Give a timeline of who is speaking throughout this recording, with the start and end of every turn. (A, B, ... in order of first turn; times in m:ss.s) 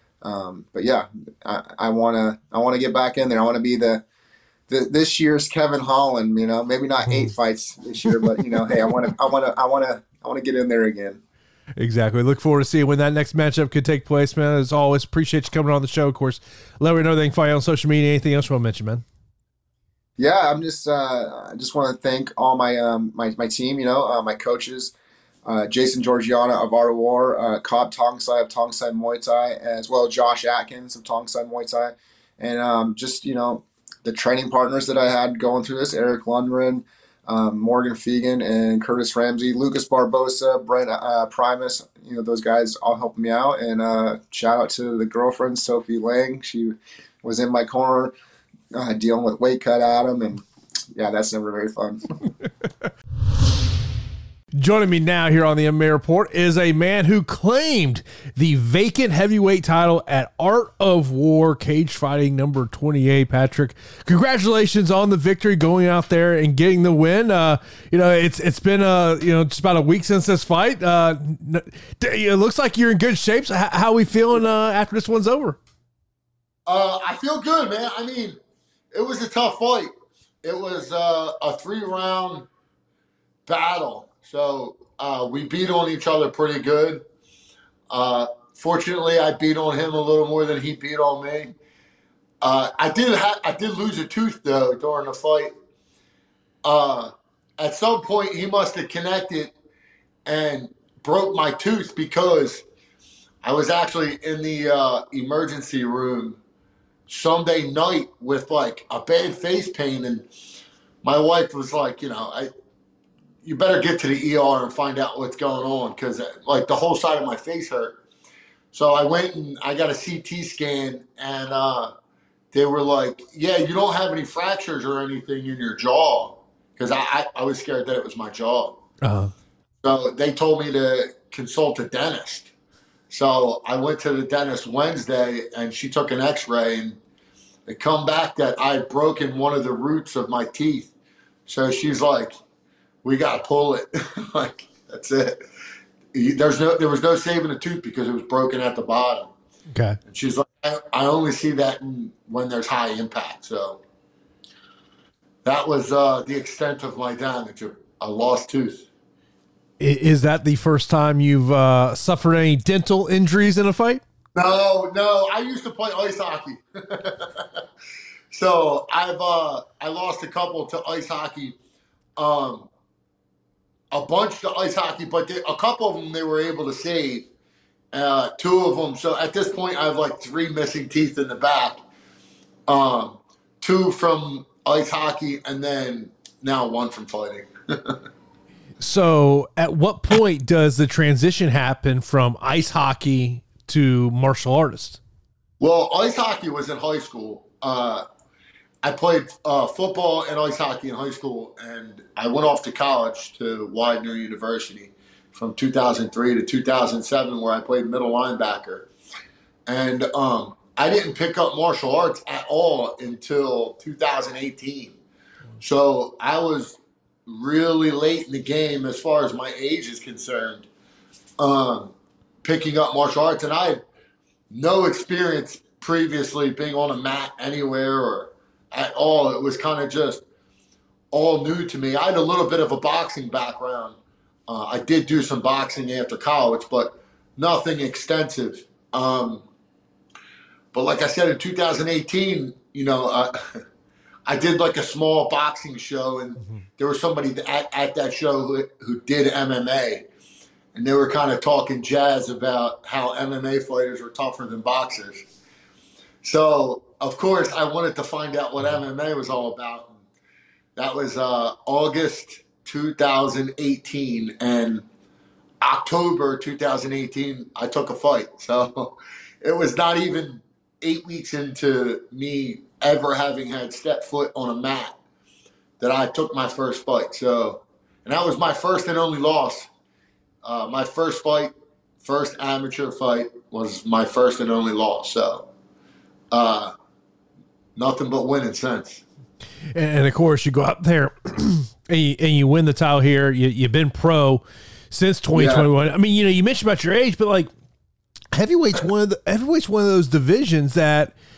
0:00.2-0:04.0 A
0:04.7-0:11.2 A
0:07.0-0:07.3 B
0:11.8-0:19.0 B
0:20.2-0:24.9 A
0:25.4-0:48.1 A
0:48.7-0:52.0 A
0:54.6-1:15.6 B
1:16.7-1:18.4 C
1:18.9-1:19.9 C
1:20.4-1:22.5 C
1:23.5-1:27.0 C
1:27.9-1:31.6 C
1:32.4-1:35.5 C
1:36.6-1:39.5 C
1:40.3-1:42.6 C
1:43.4-1:46.4 C
1:47.1-1:50.3 C
1:51.0-1:52.5 C
1:53.4-1:58.0 C
1:58.7-2:01.9 C
2:02.5-2:08.8 C
2:09.0-2:09.3 B
2:09.8-2:12.5 C
2:13.1-2:17.0 C
2:17.7-2:20.9 C
2:21.5-2:22.3 C
2:23.0-2:25.4 C
2:26.1-2:29.3 C
2:29.7-2:30.0 B
2:30.1-2:33.8 C
2:35.4-2:38.9 C
2:39.8-2:44.0 B
2:44.4-2:47.3 C
2:48.3-2:51.6 C
2:52.2-2:52.7 C
2:53.9-2:57.3 C
2:57.9-3:01.8 C
3:02.7-3:08.0 C
3:08.8-3:15.0 B
3:15.6-3:18.0 C
3:18.8-3:28.9 C
3:29.7-3:35.0 C
3:35.6-3:40.7 C
3:41.4-3:41.9 C
3:42.4-3:43.8 C
3:44.5-3:50.2 C
3:51.1-3:54.0 C
3:54.5-3:59.4 C
4:00.7-4:03.6 C
4:04.3-4:10.1 C
4:10.8-4:15.2 C
4:16.2-4:20.0 C
4:20.8-4:24.9 C
4:25.6-4:35.0 C
4:35.8-4:39.7 C
4:40.4-4:45.5 C
4:46.3-4:46.7 C
4:47.8-4:49.0 C
4:49.7-4:57.5 B
4:55.3-4:55.7 C
4:58.3-5:01.1 B